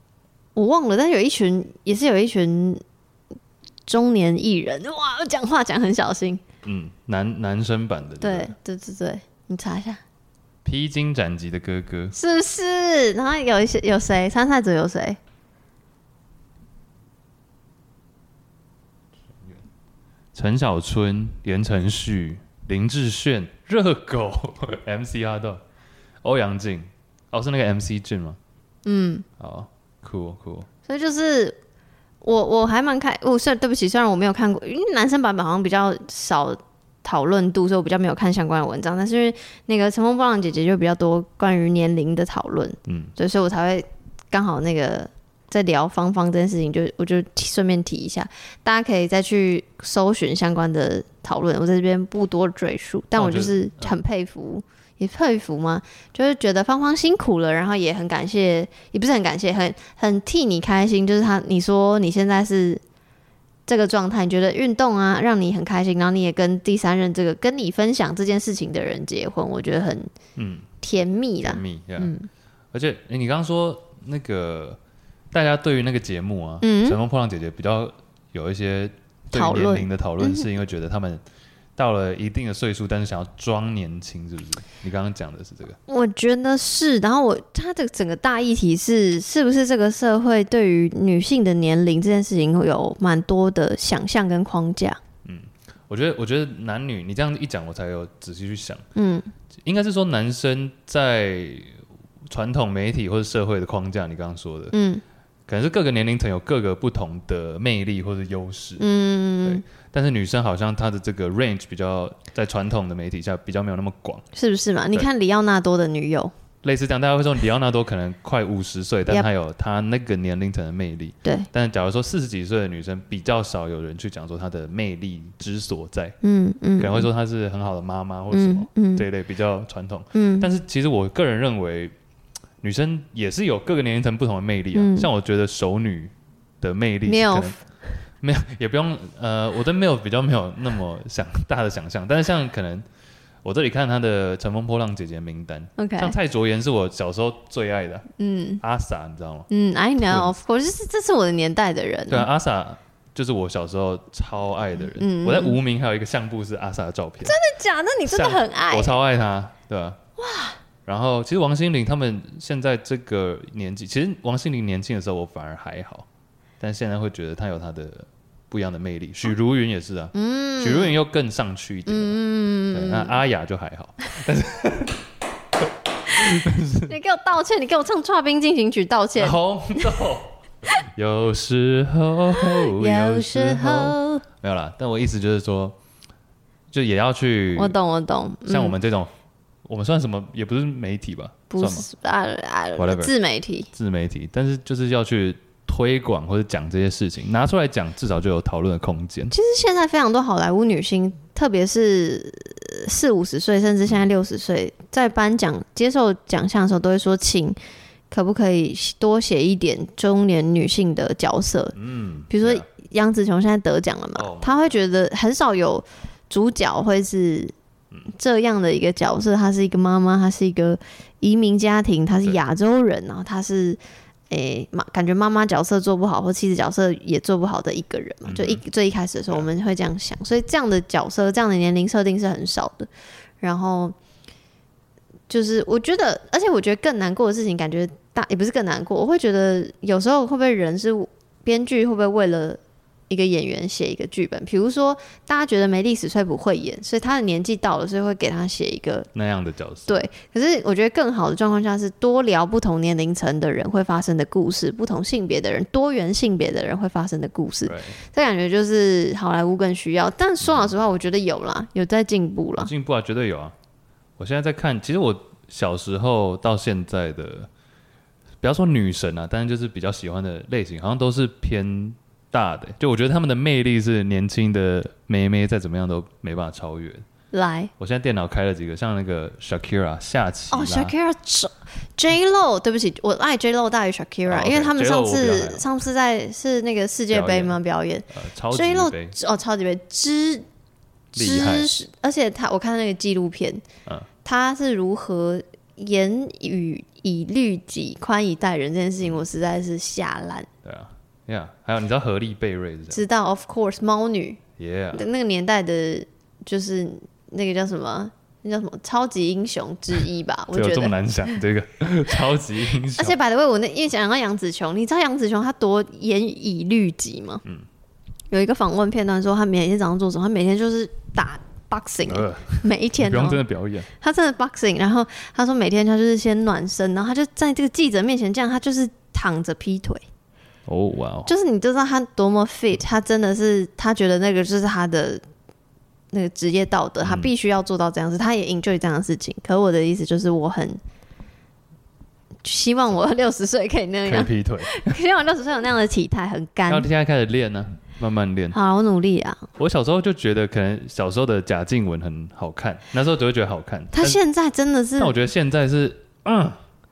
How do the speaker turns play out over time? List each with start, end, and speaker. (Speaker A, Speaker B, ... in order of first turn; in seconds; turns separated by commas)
Speaker A: 0.5-2.8, Speaker A: 3.9-6.4, Speaker B: 6.6-8.5, Speaker A: 8.2-10.0, Speaker B: 10.6-12.2, Speaker A: 12.1-15.2, Speaker B: 20.3-25.6, Speaker B: 26.2-28.4, Speaker A: 28.8-29.2, Speaker B: 29.4-30.7, Speaker A: 30.9-31.6, Speaker A: 32.2-62.8, Speaker B: 42.9-43.1, Speaker B: 53.1-53.9, Speaker A: 63.7-70.1, Speaker B: 70.3-70.7, Speaker A: 70.8-72.3, Speaker B: 71.4-72.1, Speaker B: 72.7-74.8, Speaker B: 75.3-81.2, Speaker A: 76.6-77.0, Speaker A: 79.3-80.5, Speaker B: 81.8-85.8, Speaker A: 85.9-95.0, Speaker B: 95.2-98.8, Speaker A: 98.9-99.3, Speaker B: 99.6-101.8, Speaker B: 102.3-104.8, Speaker A: 104.7-105.0, Speaker B: 105.5-108.8, Speaker A: 108.8-109.6, Speaker B: 109.4-114.2, Speaker A: 114.3-116.3, Speaker B: 116.6-126.2, Speaker A: 126.2-127.1, Speaker B: 126.8-131.9, Speaker A: 128.3-129.1, Speaker A: 130.1-130.5, Speaker B: 132.6-137.6, Speaker A: 134.7-135.1, Speaker A: 137.1-137.6, Speaker B: 138.2-142.8, Speaker B: 143.4-148.1, Speaker A: 145.8-146.1, Speaker A: 148.2-148.6, Speaker B: 148.6-149.5, Speaker A: 149.5-152.3, Speaker B: 150.0-150.3, Speaker B: 152.1-157.4, Speaker A: 154.9-155.6, Speaker A: 157.2-159.0, Speaker B: 158.1-160.0, Speaker A: 160.2-160.6, Speaker B: 160.8-166.1, Speaker B: 166.6-172.2, Speaker A: 170.1-170.9, Speaker A: 171.9-173.2, Speaker B: 172.7-175.0, Speaker B: 176.1-176.9, Speaker A: 176.9-180.0, Speaker B: 179.2-185.8, Speaker A: 182.3-184.2, Speaker B: 186.7-187.7, Speaker A: 187.6-188.8, Speaker B: 188.5-189.1, Speaker B: 189.7-191.9, Speaker A: 191.5-193.7, Speaker B: 192.8-193.1, Speaker B: 193.7-199.3, Speaker A: 199.3-207.6, Speaker A: 208.1-211.7, Speaker B: 211.7-212.7, Speaker A: 212.3-217.5, Speaker B: 214.1-214.8, Speaker A: 218.1-223.8, Speaker A: 224.3-232.9, Speaker B: 228.2-228.6, Speaker A: 233.4-233.9, Speaker A: 235.3-249.1, Speaker B: 249.1-250.0, Speaker A: 249.9-262.7, Speaker B: 257.6-258.0, Speaker B: 260.4-260.7, Speaker B: 262.6-263.5, Speaker B: 264.2-267.5, Speaker B: 268.4-277.0, Speaker A: 277.3-277.7, Speaker B: 277.8-280.9, Speaker A: 280.5-290.4, Speaker B: 284.3-285.6, Speaker B: 287.1-287.6, Speaker B: 288.1-289.1, Speaker B: 291.1-291.7, Speaker A: 291.1-293.6, Speaker A: 294.2-300.5, Speaker B: 300.6-303.0, Speaker A: 302.9-304.4, Speaker B: 304.6-305.1, Speaker A: 304.9-310.9, Speaker B: 310.5-313.2, Speaker A: 312.9-317.4, Speaker A: 318.3-330.0, Speaker B: 322.1-323.9, Speaker B: 330.7-331.3, Speaker A: 331.2-335.2, Speaker A: 336.1-340.8, Speaker B: 337.0-337.3, Speaker A: 342.4-346.9, Speaker B: 344.0-344.9, Speaker B: 346.7-348.6, Speaker A: 348.5-349.5, Speaker B: 349.6-354.2, Speaker A: 353.9-355.2, Speaker B: 355.0-356.6